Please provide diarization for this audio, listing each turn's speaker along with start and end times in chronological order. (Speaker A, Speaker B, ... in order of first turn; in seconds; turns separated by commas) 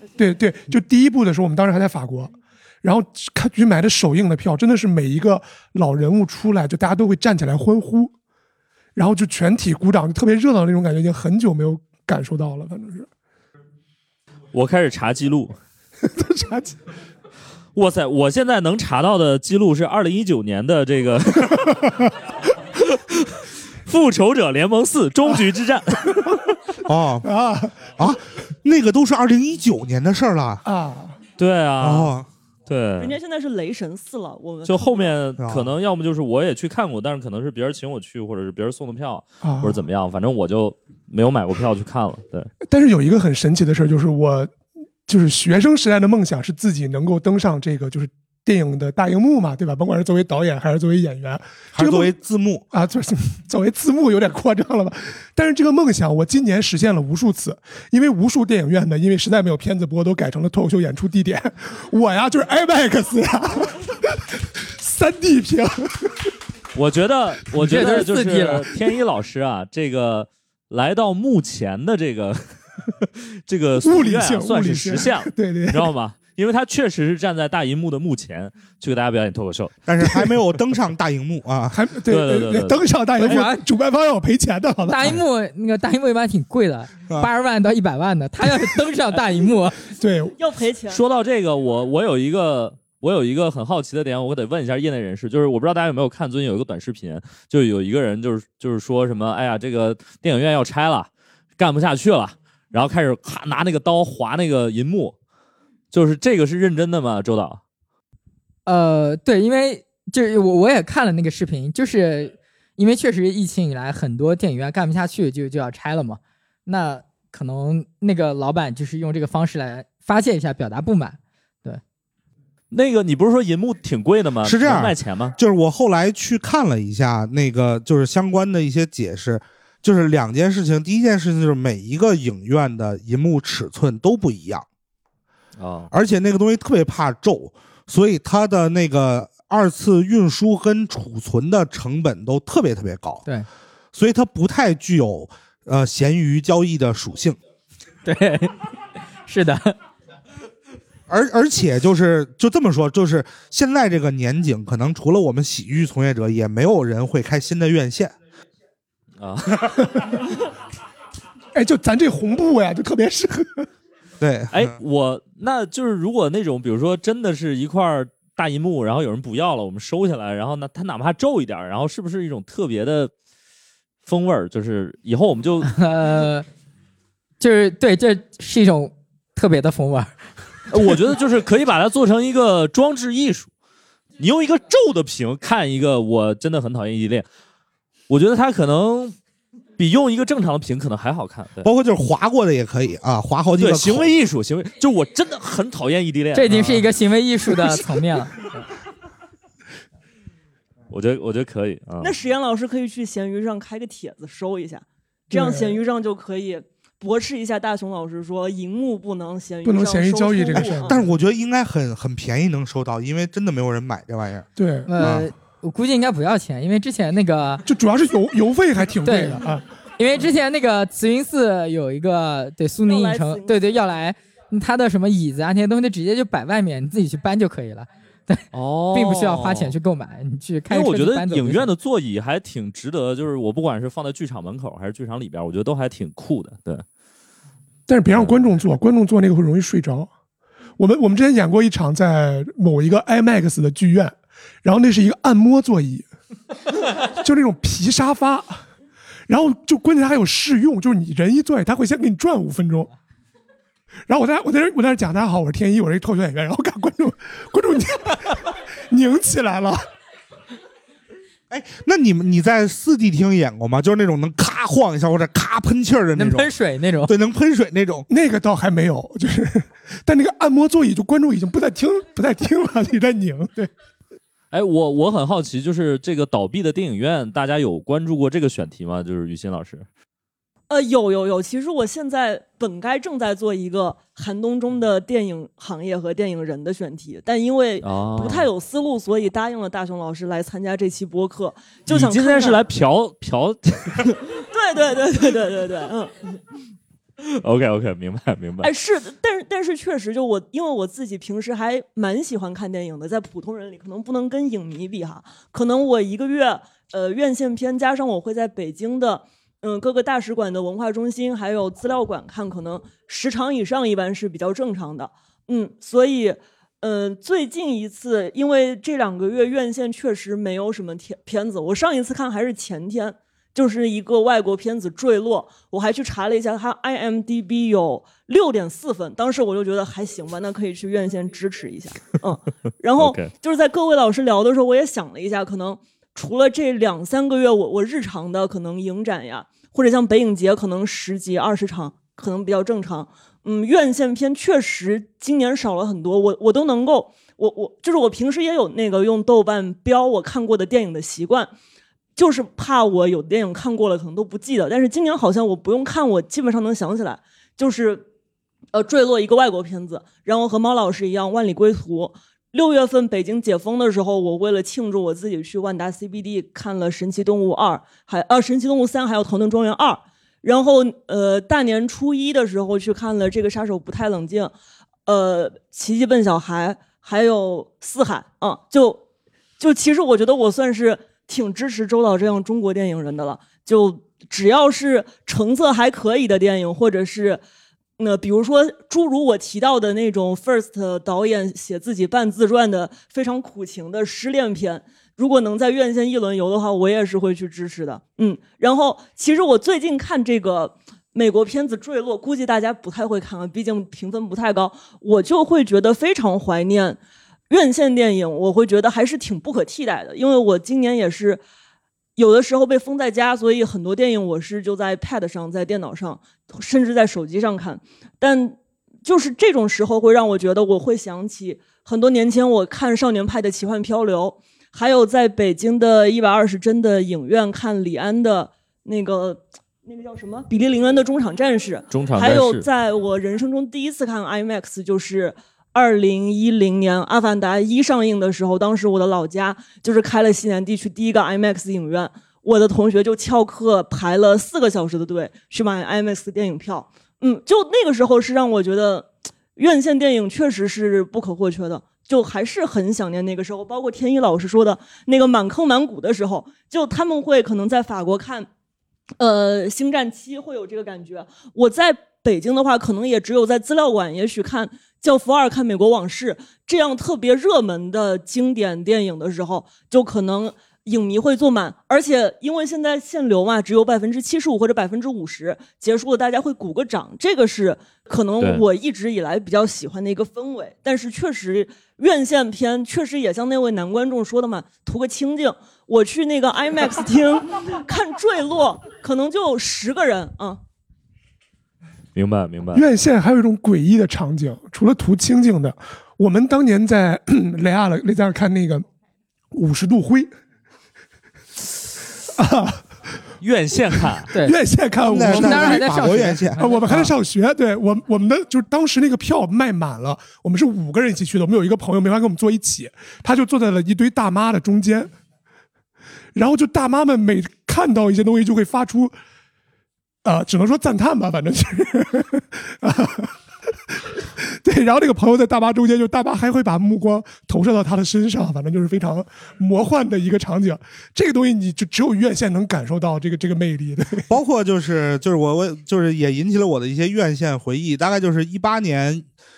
Speaker A: 0.2-8.1, Speaker A: 9.0-13.1, Speaker B: 14.5-15.6, Speaker A: 16.0-16.8, Speaker B: 17.8-22.1, Speaker B: 22.8-26.3, Speaker C: 26.9-27.3, Speaker A: 27.2-27.9, Speaker C: 27.9-30.6, Speaker A: 30.6-31.2, Speaker B: 31.4-32.1, Speaker C: 31.8-32.3, Speaker B: 32.7-33.2, Speaker D: 33.0-35.1, Speaker B: 34.6-42.5, Speaker C: 35.4-35.7, Speaker A: 39.4-39.8, Speaker A: 42.7-44.5, Speaker A: 45.1-52.1, Speaker C: 51.7-52.7, Speaker A: 52.7-66.3, Speaker B: 66.8-72.6, Speaker E: 67.5-68.7, Speaker B: 73.2-79.8, Speaker A: 73.8-75.9, Speaker C: 79.9-81.8, Speaker A: 81.7-85.2, Speaker B: 82.1-83.4, Speaker E: 83.2-83.6, Speaker E: 84.9-89.8, Speaker A: 90.0-90.4, Speaker D: 90.4-91.0, Speaker B: 90.9-105.2, Speaker B: 105.9-107.6, Speaker E: 108.7-121.8, Speaker B: 122.7-125.4, Speaker C: 124.4-134.7, Speaker B: 135.6-135.9, Speaker C: 135.9-143.2, Speaker C: 143.9-147.4, Speaker E: 148.1-148.7, Speaker E: 149.3-149.8, Speaker C: 151.1-158.2, Speaker B: 159.2-159.9, Speaker A: 161.5-163.7, Speaker C: 164.2-164.8, Speaker B: 164.5-173.1, Speaker B: 174.1-175.7, Speaker E: 175.7-176.5, Speaker E: 177.4-180.2, Speaker B: 180.7-183.5, Speaker B: 184.2-187.3, Speaker B: 188.1-189.2, Speaker B: 189.8-191.7, Speaker C: 191.6-194.1, Speaker B: 193.6-196.9, Speaker E: 196.3-198.4, Speaker B: 200.9-202.1, Speaker D: 202.0-211.0, Speaker A: 205.3-205.8, Speaker A: 209.6-211.1, Speaker C: 210.6-215.3, Speaker A: 214.6-214.9, Speaker E: 214.9-217.7, Speaker A: 217.7-219.7, Speaker E: 219.0-219.4, Speaker E: 220.0-231.7, Speaker D: 222.8-223.6, Speaker B: 228.5-229.8, Speaker B: 230.7-236.8, Speaker A: 237.9-240.1, Speaker B: 238.1-238.4, Speaker A: 240.8-246.1, Speaker A: 246.9-248.7, Speaker A: 249.3-252.9, Speaker A: 254.1-259.8, Speaker C: 261.5-268.1, Speaker E: 266.1-267.1, Speaker A: 268.1-273.7, Speaker B: 274.5-279.9, Speaker D: 280.7-292.6, Speaker B: 287.8-288.5, Speaker B: 291.9-294.2, Speaker D: 294.1-296.4, Speaker B: 297.2-298.7, Speaker D: 298.6-351.5, Speaker B: 333.0-333.3, Speaker D: 352.2-358.1, Speaker D: 358.7-374.5, Speaker D: 375.1-379.0, Speaker D: 379.6-387.4, Speaker D: 388.0-411.4, Speaker D: 412.2-458.5, Speaker B: 431.9-432.7, Speaker D: 459.2-490.6, Speaker B: 478.4-478.6, Speaker B: 492.1-492.9, Speaker A: 492.7-498.9, Speaker A: 499.5-500.3, Speaker A: 502.4-502.9, Speaker B: 503.4-504.3, Speaker E: 504.3-504.6, Speaker A: 504.3-515.1, Speaker C: 505.0-506.6, Speaker E: 505.1-507.1, Speaker A: 516.4-519.1, Speaker A: 520.2-523.4, Speaker A: 523.9-534.3, Speaker C: 534.3-539.3